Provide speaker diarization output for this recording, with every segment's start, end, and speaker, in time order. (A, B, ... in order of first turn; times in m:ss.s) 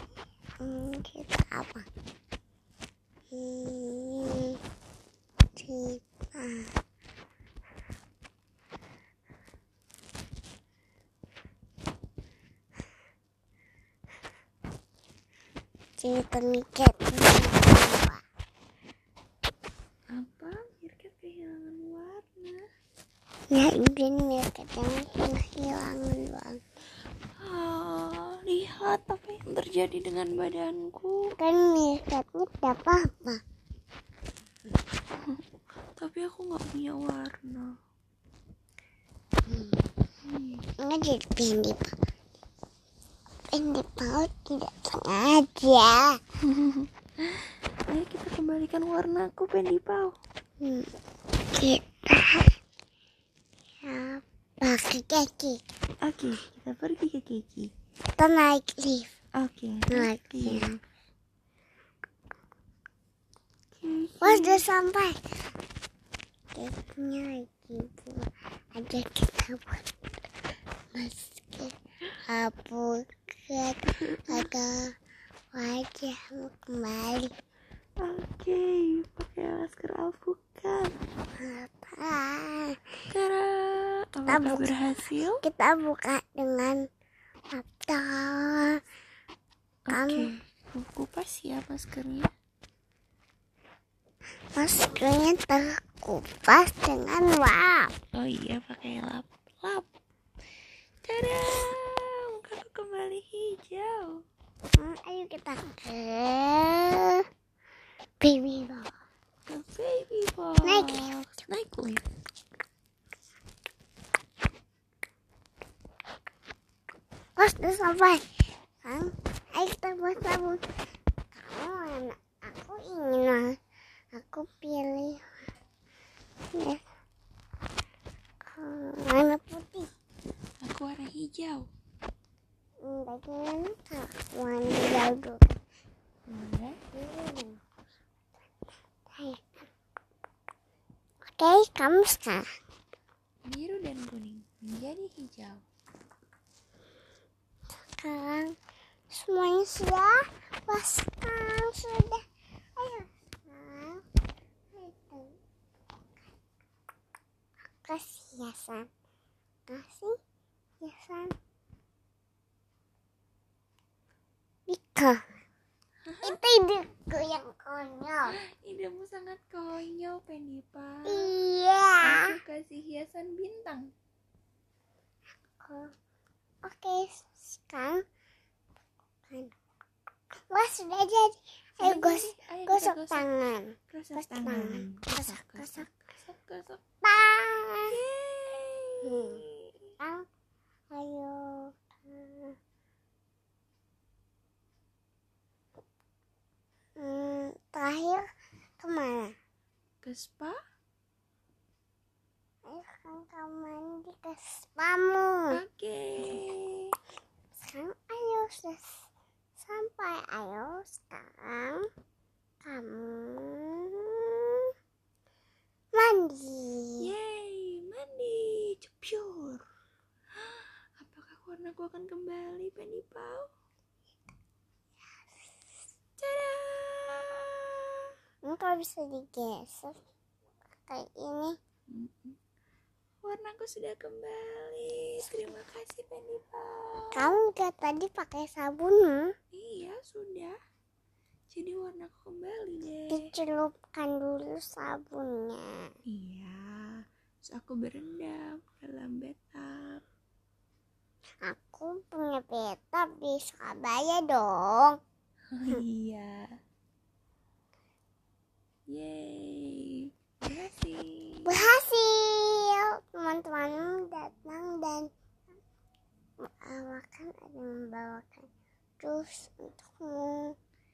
0:00.6-0:01.9 A
0:03.3-0:04.6 A
0:05.6-0:06.7 A
0:16.0-0:18.2 A
0:20.1-0:22.6 B
0:23.5-0:26.6 A
0:27.4-0:31.4 B
0:31.4-0:33.4 A
0:36.0-0:37.8 B
0:39.5-0:39.8 A
0:40.2-0:40.6 B
0:40.8-0:42.0 A
0:43.5-0:46.2 A
0:46.4-0:50.2 B
0:50.6-0:50.9 A
0:51.5-0:52.5 A
0:53.8-0:55.6 A
0:56.0-0:57.7 B
0:58.2-0:59.1 A
0:59.4-1:00.8 B
0:59.9-1:00.8 A
1:03.7-1:04.6 B
1:04.2-1:05.2 A
1:06.5-1:09.9 A
1:10.9-1:15.0 A
1:14.1-1:14.4 B
1:15.5-1:17.3 A
1:18.0-1:21.0 B
1:21.4-1:22.9 A
1:23.1-1:25.4 B
1:24.3-1:24.8 A
1:25.4-1:26.8 A
1:27.5-1:28.8 A
1:29.9-1:32.3 B
1:29.9-1:30.3 A
1:34.6-1:37.9 A
1:38.1-1:39.9 B
1:41.0-1:44.2 B
1:44.8-1:47.2 A
1:48.2-1:48.9 A
1:49.5-1:52.0 B
1:50.6-1:51.1 A
1:57.4-2:00.6 A
2:01.3-2:03.6 A
2:04.1-2:05.3 A
2:06.5-2:06.8 A
2:08.4-2:09.9 A
2:10.6-2:11.7 B
2:12.8-2:15.6 A
2:16.3-2:16.8 B
2:16.9-2:17.6 A
2:19.1-2:19.7 A
2:21.3-2:22.5 A
2:23.5-2:25.6 B
2:28.0-2:28.6 A
2:29.1-2:32.2 A
2:32.8-2:34.0 A
2:34.7-2:35.4 A
2:37.8-2:38.9 A
2:39.7-2:40.2 A
2:40.8-2:41.4 A
2:44.7-2:45.2 A
2:46.1-2:46.4 B
2:46.2-2:48.4 A
2:48.3-2:51.3 B
2:51.1-2:52.4 A
2:52.0-2:53.9 B
2:55.6-2:55.9 A
2:56.6-2:58.0 A
2:59.3-2:59.5 A
3:00.5-3:05.9 A
3:01.8-3:03.3 B
3:03.9-3:06.8 B
3:07.0-3:08.0 A
3:07.9-3:09.9 B
3:09.0-3:09.4 A
3:10.0-3:10.2 A
3:10.9-3:12.6 A
3:17.0-3:18.3 A
3:18.8-3:19.4 A
3:20.0-3:20.6 B
3:22.6-3:25.6 A
3:25.5-3:27.0 B
3:27.6-3:31.9 A
3:32.6-3:34.7 A
3:35.9-3:37.1 A
3:37.0-3:39.6 B
3:40.3-3:43.5 B
3:46.2-3:48.2 B
3:48.4-3:50.0 A
3:50.9-3:51.6 A
3:51.9-3:52.4 B
3:53.2-3:57.4 B
3:57.2-3:59.3 A
3:59.5-4:00.6 B
4:01.5-4:03.3 B
4:03.1-4:05.9 A
4:06.0-4:10.0 B
4:11.4-4:15.0 A
4:15.5-4:16.5 B
4:18.9-4:21.6 B
4:21.5-4:25.1 A
4:26.4-4:28.5 A
4:29.0-4:30.6 A